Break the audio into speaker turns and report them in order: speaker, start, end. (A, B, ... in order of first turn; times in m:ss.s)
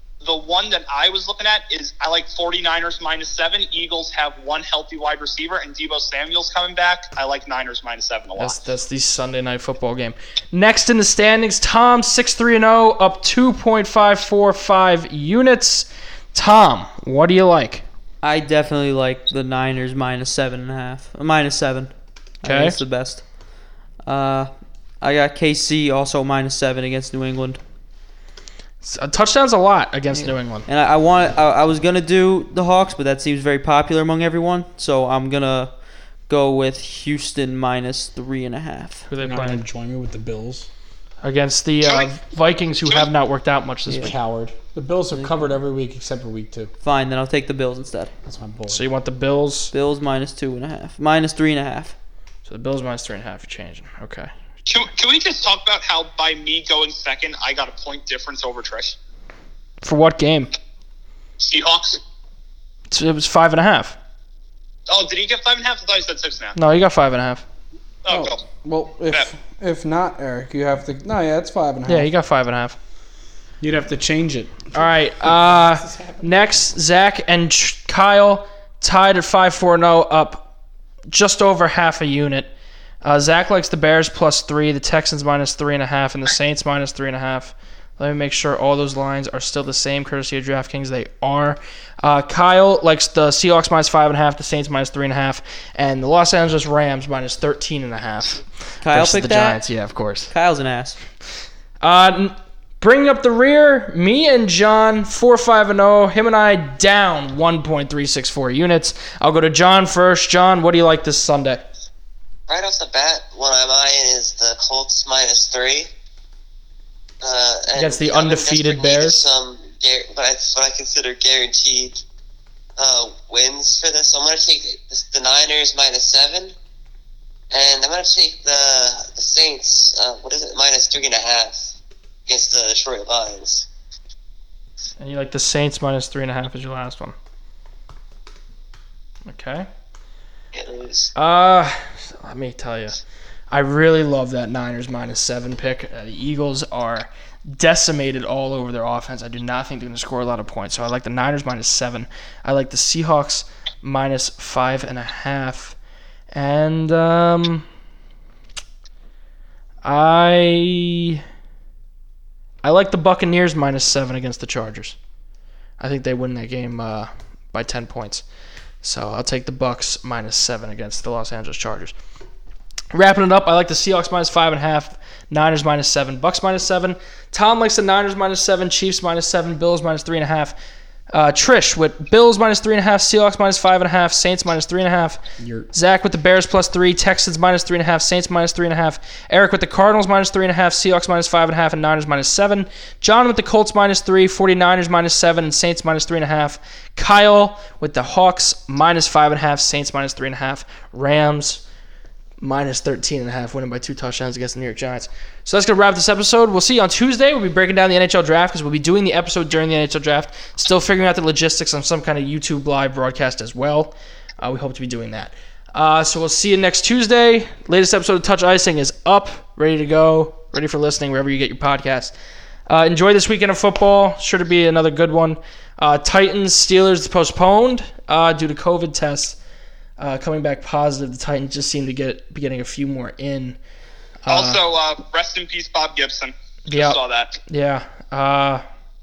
0:00.2-0:08.6 A
0:08.4-0:17.8 B
0:18.2-0:21.9 C
0:22.4-0:23.3 C
0:22.4-0:22.8 B
0:24.0-0:27.6 C
0:28.8-0:30.7 B
0:30.1-0:39.1 C
0:39.1-0:39.6 B
0:39.2-0:40.7 D
0:41.2-0:44.2 B
0:44.0-0:46.7 D
0:46.8-0:48.1 C
0:48.3-0:48.8 D
0:48.7-0:49.7 B
0:49.7-0:51.9 C
0:52.5-0:54.3 B
0:54.7-0:59.0 A
0:59.8-1:00.5 B
1:01.4-1:02.0 A
1:02.9-1:04.0 B
1:04.9-1:06.6 A
1:06.6-1:07.4 B
1:08.0-1:08.4 A
1:08.1-1:12.1 D
1:11.9-1:12.8 B
1:13.6-1:16.5 D
1:14.7-1:20.5 B
1:21.1-1:22.5 B
1:23.0-1:40.3 B
1:38.8-1:39.6 C
1:40.3-1:41.0 C
1:41.8-1:51.6 B
1:52.5-1:55.9 E
1:57.2-2:02.0 E
1:57.8-1:59.3 B
2:02.8-2:06.5 E
2:07.5-2:11.8 E
2:12.3-2:13.7 E
2:15.0-2:17.2 B
2:19.3-2:19.7 B
2:20.5-2:21.1 E
2:21.2-2:23.0 B
2:23.5-2:35.8 B
2:36.3-2:37.7 B
2:39.8-2:41.2 B
2:42.6-2:45.0 B
2:45.8-2:48.2 B
2:48.8-2:51.9 B
2:52.9-3:00.6 B
3:01.1-3:05.2 B
3:05.4-3:05.7 D
3:05.7-3:21.6 B
3:22.4-3:42.1 B
3:42.7-3:49.4 B
3:50.0-3:53.6 B
3:54.2-3:54.6 B
3:54.3-3:57.4 A
3:56.7-3:58.6 B